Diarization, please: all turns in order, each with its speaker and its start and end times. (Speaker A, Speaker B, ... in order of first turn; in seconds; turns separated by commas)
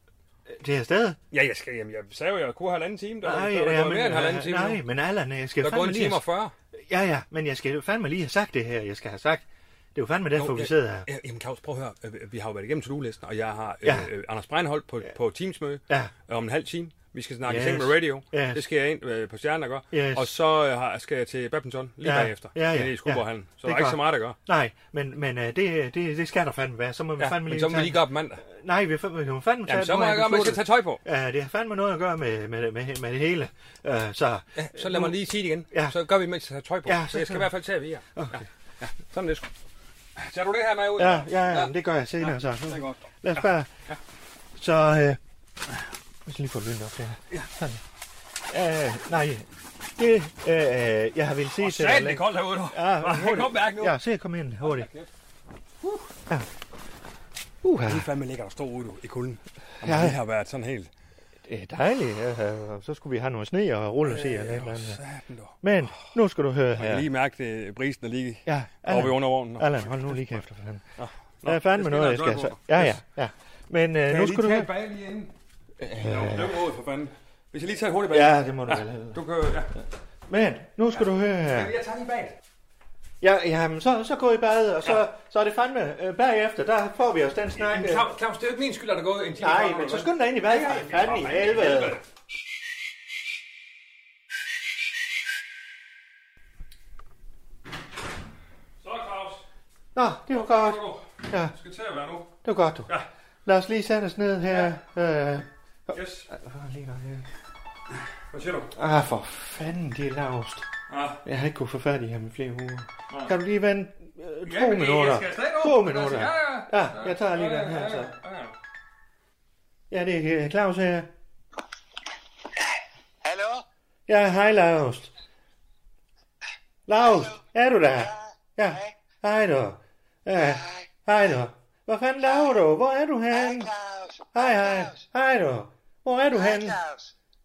Speaker A: 0.5-1.2, Speaker B: 1.3-4.8, Speaker A: 3.2-6.2, Speaker B: 5.6-6.5, Speaker A: 6.7-9.4, Speaker A: 9.9-11.1, Speaker B: 10.3-24.4, Speaker A: 13.8-14.1, Speaker A: 17.4-18.6, Speaker A: 19.9-20.3, Speaker A: 22.0-35.2, Speaker B: 27.2-28.4, Speaker B: 29.7-31.0, Speaker B: 34.6-39.5, Speaker A: 35.7-36.0, Speaker A: 36.9-37.5, Speaker A: 38.2-38.5, Speaker B: 40.2-44.0, Speaker A: 41.0-43.7, Speaker A: 44.6-45.2, Speaker A: 46.3-47.8, Speaker A: 48.5-49.5, Speaker A: 50.0-54.9, Speaker B: 51.6-54.0, Speaker B: 54.6-55.1, Speaker B: 55.8-56.1, Speaker A: 57.6-58.1, Speaker B: 57.9-60.9, Speaker A: 59.8-60.2, Speaker A: 61.5-65.0, Speaker B: 64.0-65.6, Speaker A: 65.6-67.1, Speaker B: 66.8-70.4, Speaker A: 68.5-74.7, Speaker B: 71.0-73.0, Speaker B: 74.1-75.3, Speaker A: 75.8-76.6, Speaker B: 75.9-79.7, Speaker A: 78.1-79.2, Speaker A: 80.3-81.7, Speaker B: 81.0-82.4, Speaker A: 83.2-88.1, Speaker B: 87.6-92.0, Speaker A: 89.4-92.0, Speaker B: 98.8-99.5, Speaker A: 100.0-101.6, Speaker B: 100.3-102.3, Speaker A: 102.4-102.9, Speaker A: 103.5-107.3, Speaker B: 105.9-106.3, Speaker B: 108.3-108.7, Speaker A: 108.8-110.7, Speaker B: 110.9-111.2, Speaker A: 111.2-118.2, Speaker B: 113.1-113.3, Speaker B: 114.4-118.5, Speaker A: 119.9-121.1, Speaker C: 122.5-123.7, Speaker A: 124.1-125.1, Speaker A: 126.9-133.7, Speaker C: 127.0-129.0, Speaker C: 130.3-131.1, Speaker C: 132.2-132.6, Speaker C: 133.3-135.1, Speaker A: 134.3-136.8, Speaker C: 136.3-137.1